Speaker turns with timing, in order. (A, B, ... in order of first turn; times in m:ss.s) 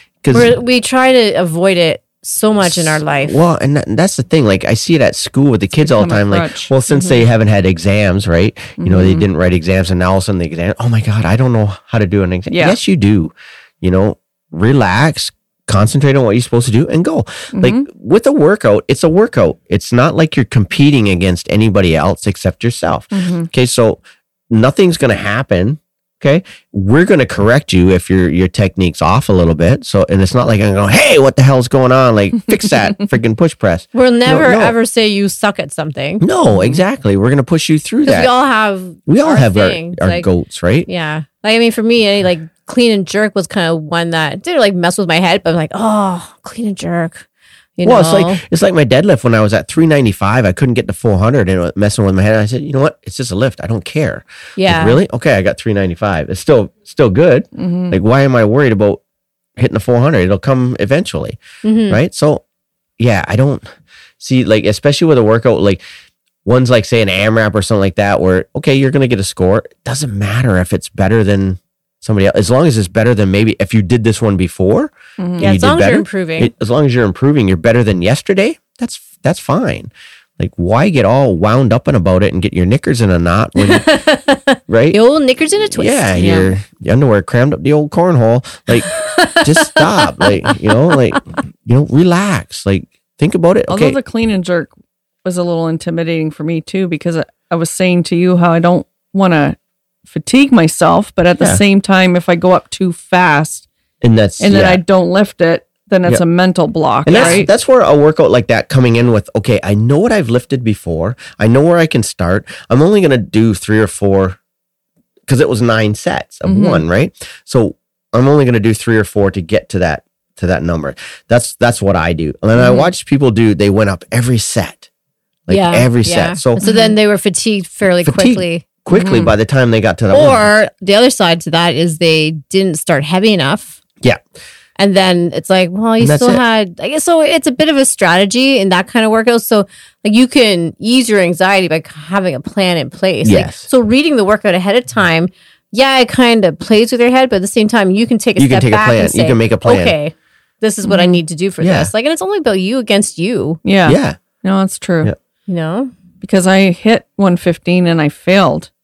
0:00.2-0:00.5 A
0:00.3-0:03.4 B
0:02.6-0:34.8 A
0:05.8-0:07.2 C
0:08.8-0:09.3 C
0:12.5-0:12.8 C
0:17.5-0:17.8 C
0:23.1-0:23.5 C
0:33.9-0:36.2 B
0:36.2-0:38.3 A
0:36.5-0:36.8 C
0:38.0-0:40.3 B
0:39.1-0:40.9 A
0:40.8-0:47.2 B
0:47.8-0:48.4 B
0:47.8-0:59.0 A
0:54.6-0:55.0 B
0:57.6-0:58.0 C
0:59.6-1:02.4 A
1:01.6-1:02.0 B
1:03.0-1:03.6 A
1:04.2-1:05.8 A
1:06.4-1:23.9 A
1:15.2-1:15.5 C
1:15.4-1:16.5 B
1:23.6-1:26.1 B
1:24.7-1:25.0 A
1:25.7-1:34.0 A
1:26.1-1:26.5 C
1:28.9-1:30.7 B
1:33.7-1:34.7 C
1:35.2-1:43.7 C
1:44.0-1:44.8 A
1:44.4-1:47.5 C
1:47.0-1:54.4 A
1:47.1-1:47.4 B
1:55.3-2:04.9 A
1:56.4-1:56.8 C
2:02.6-2:02.9 C
2:05.5-2:06.6 A
2:05.5-2:08.6 B
2:06.6-2:06.9 C
2:08.0-2:10.5 A
2:08.9-2:09.3 C
2:10.1-2:13.8 B
2:14.8-2:33.6 B
2:16.0-2:16.4 A
2:23.2-2:23.7 A
2:28.4-2:30.0 A
2:30.8-2:31.2 C
2:31.6-2:31.9 A
2:33.6-2:35.1 C
2:33.8-2:34.2 A
2:35.5-2:35.9 B
2:36.2-2:38.7 C